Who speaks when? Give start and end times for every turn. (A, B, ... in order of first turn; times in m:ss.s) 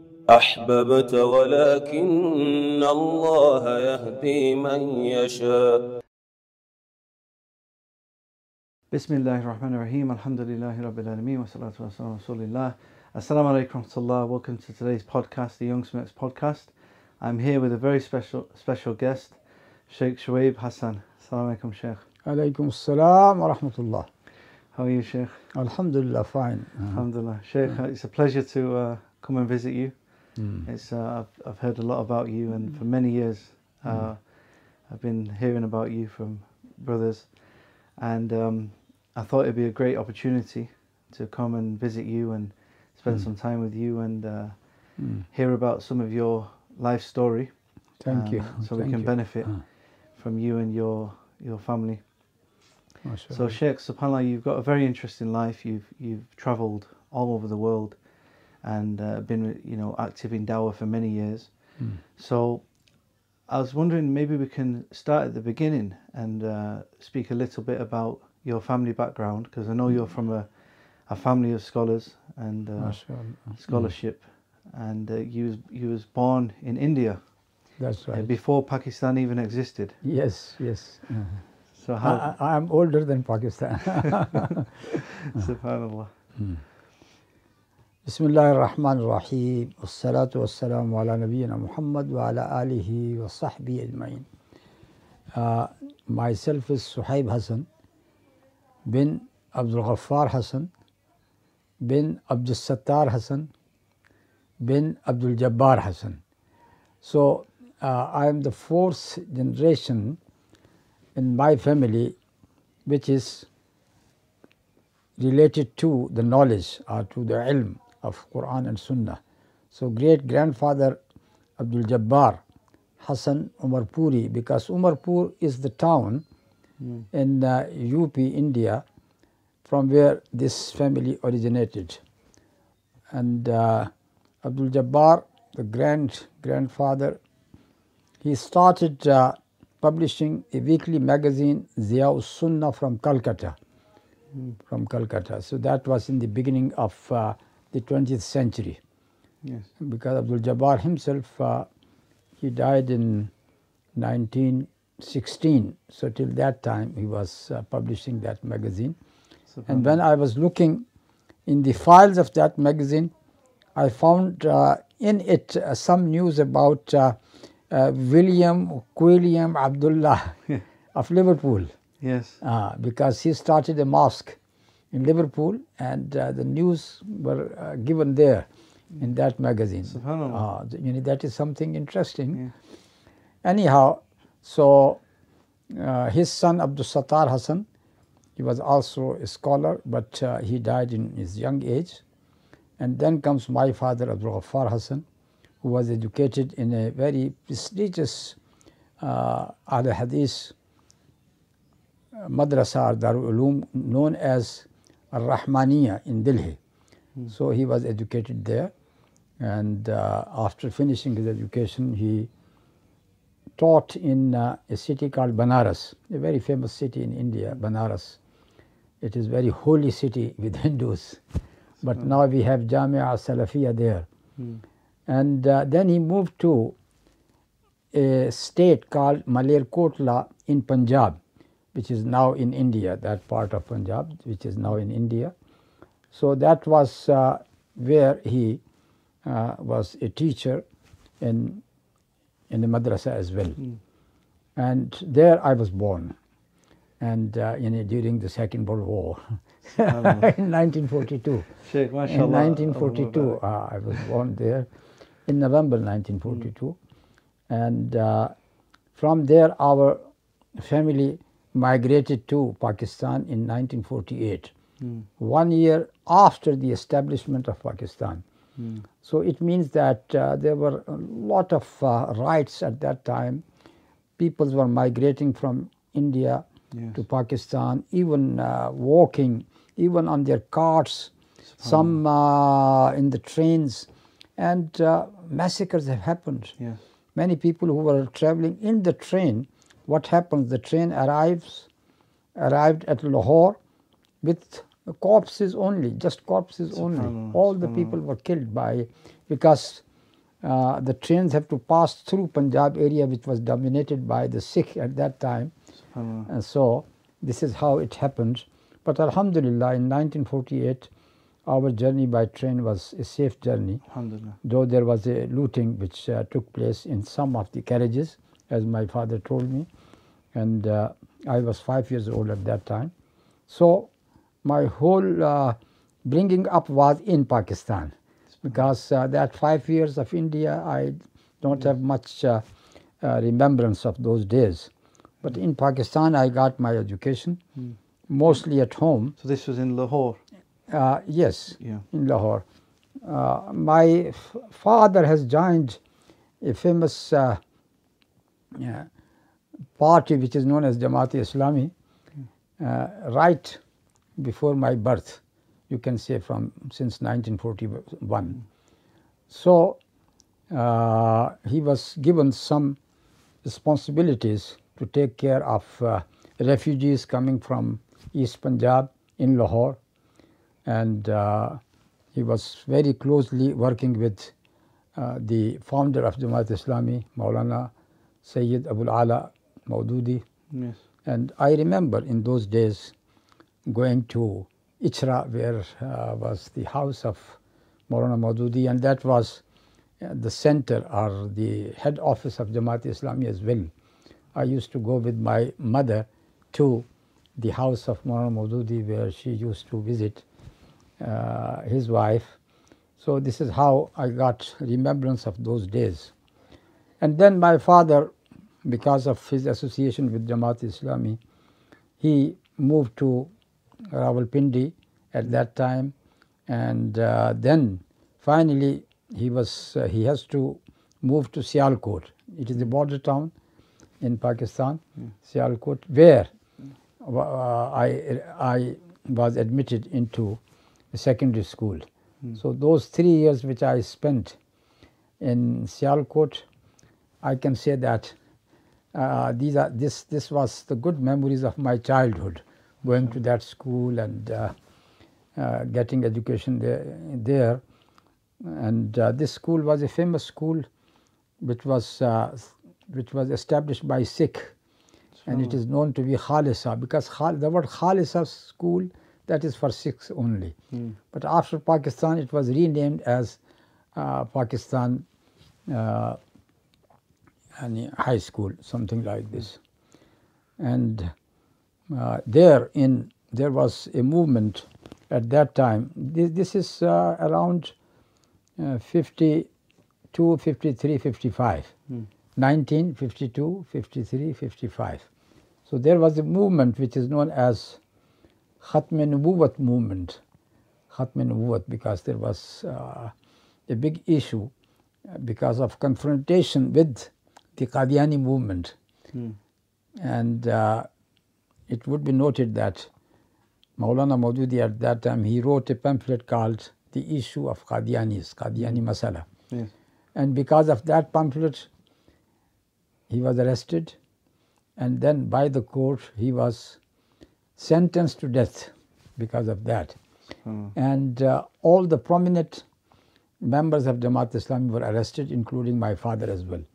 0:00.3-0:05.8 A
0:08.9-0:22.0 B
0:22.2-0:24.1 C
0:24.7-0:25.5 B
0:25.5-0:27.0 C
0:26.9-0:47.6 B
0:30.4-0:30.7 C
0:33.8-0:34.1 C
0:45.0-0:45.2 C
0:48.0-0:49.6 C
0:48.1-0:52.0 B
0:53.0-0:53.6 C
0:53.3-1:02.7 B
1:03.5-1:17.4 B
1:12.8-1:13.9 C
1:17.8-1:18.3 C
1:18.1-1:20.0 B
1:20.0-1:21.4 C
1:21.7-1:22.3 B
1:22.0-1:24.6 C
1:25.2-1:26.1 B
1:26.4-1:26.6 C
1:28.0-1:34.3 C
1:35.3-1:37.7 C
1:38.8-1:40.7 C
1:41.8-1:43.5 C
1:44.6-1:46.2 C
1:47.0-1:50.2 C
1:51.1-1:52.2 C
1:52.8-1:53.5 C
1:55.2-1:59.2 C
1:59.7-2:01.0 C
2:01.6-2:02.4 C
2:03.0-2:06.2 C
2:06.8-2:07.0 B
2:07.1-2:08.8 C
2:09.6-2:12.0 C
2:13.1-2:13.9 C
2:14.4-2:17.2 C
2:18.2-2:23.6 C
2:24.7-2:28.8 C
2:29.4-2:29.7 B
2:29.8-2:31.7 C
2:32.4-2:33.3 C
2:33.9-2:39.0 C
2:39.5-2:40.0 B
2:39.7-2:40.8 C
2:41.4-2:43.1 C
2:43.7-2:47.2 C
2:47.7-2:50.4 C
2:50.9-2:51.7 C
2:52.0-2:52.4 B
2:52.4-2:54.4 C
2:54.9-2:58.5 C
2:59.0-3:02.4 C
2:59.8-3:00.4 B
3:03.4-3:05.0 C
3:05.7-3:07.6 C
3:08.4-3:12.0 C
3:12.8-3:15.0 C
3:15.6-3:18.4 C
3:19.0-3:20.5 C
3:22.1-3:26.6 C
3:27.3-3:28.7 C
3:29.4-3:32.3 C
3:33.6-3:38.2 C
3:39.0-3:41.2 C
3:41.8-3:44.1 C
3:44.4-3:44.6 B
3:45.1-3:46.8 C
3:47.9-3:51.2 C
3:51.7-3:55.3 C
3:56.1-3:58.6 C
3:59.2-4:00.6 C
4:01.2-4:01.6 C
4:02.5-4:03.6 C
4:04.6-4:06.1 C
4:07.0-4:11.6 C
4:09.8-4:10.3 B
4:11.6-4:13.4 B
4:12.1-4:14.7 C
4:15.2-4:16.8 C
4:17.5-4:18.3 C
4:18.9-4:20.0 C
4:20.6-4:24.5 C
4:24.8-4:25.1 B
4:25.2-4:28.2 C
4:28.6-4:28.9 B
4:29.0-4:33.4 C
4:34.2-4:46.6 C
4:36.7-4:37.0 B
4:41.5-4:41.9 B
4:47.1-4:51.7 C
4:52.3-4:53.6 C
4:54.2-4:59.8 C
4:56.7-4:58.0 B
5:00.4-5:05.5 C
5:05.9-5:06.3 B
5:06.3-5:10.9 C
5:11.4-5:13.8 C
5:13.9-5:14.4 B
5:14.4-5:19.7 C
5:20.3-5:22.9 C
5:23.5-5:23.9 C
5:24.4-5:32.4 C
5:33.0-5:34.7 C
5:35.2-5:37.4 C
5:38.1-5:39.1 C
5:39.2-5:40.2 B
5:40.7-5:42.4 C
5:41.6-5:41.8 B
5:43.0-5:45.8 C
5:46.4-5:47.4 C
5:48.5-5:48.9 C
5:49.8-5:51.7 C
5:52.6-5:53.6 C
5:54.2-5:58.4 C
5:59.3-5:59.8 C
6:00.5-6:02.8 C
6:03.4-6:09.8 C
6:10.6-6:11.6 C
6:12.1-6:14.3 C
6:15.0-6:17.7 C
6:18.2-6:20.2 C
6:20.5-6:20.8 B
6:21.0-6:22.9 C
6:23.6-6:29.4 C
6:30.0-6:33.7 C
6:34.3-6:40.2 C
6:41.0-6:42.4 C
6:43.0-6:46.1 C
6:47.0-6:48.1 C
6:48.6-6:51.2 C
6:52.0-6:53.3 C
6:53.9-6:55.9 C
6:56.5-7:03.3 C
7:04.0-7:06.3 C
7:07.0-7:10.4 C
7:10.9-7:11.8 C
7:12.4-7:14.4 C
7:15.2-7:16.4 C
7:17.2-7:18.2 C
7:18.9-7:24.5 C
7:25.4-7:27.6 C
7:28.4-7:30.7 C
7:31.4-7:34.5 C
7:35.2-7:35.6 B
7:35.3-7:40.6 C
7:40.7-7:41.0 B
7:41.1-7:43.4 C
7:43.9-7:45.0 C
7:45.7-7:46.2 C
7:47.6-7:49.6 C
7:50.6-7:51.1 C
7:51.9-7:57.7 C
7:58.6-7:59.5 C
8:00.1-8:01.7 C
8:02.4-8:05.0 C
8:05.7-8:07.8 C
8:08.6-8:10.2 C
8:10.9-8:13.1 C
8:13.7-8:14.5 C
8:15.1-8:18.8 C
8:19.1-8:19.4 B
8:20.0-8:20.9 C
8:21.7-8:22.9 C
8:23.8-8:29.3 C
8:30.1-8:31.7 C
8:33.1-8:34.0 C
8:34.8-8:36.8 C
8:37.6-8:40.0 C
8:40.4-8:40.7 B
8:40.7-8:42.6 C
8:43.4-8:46.6 C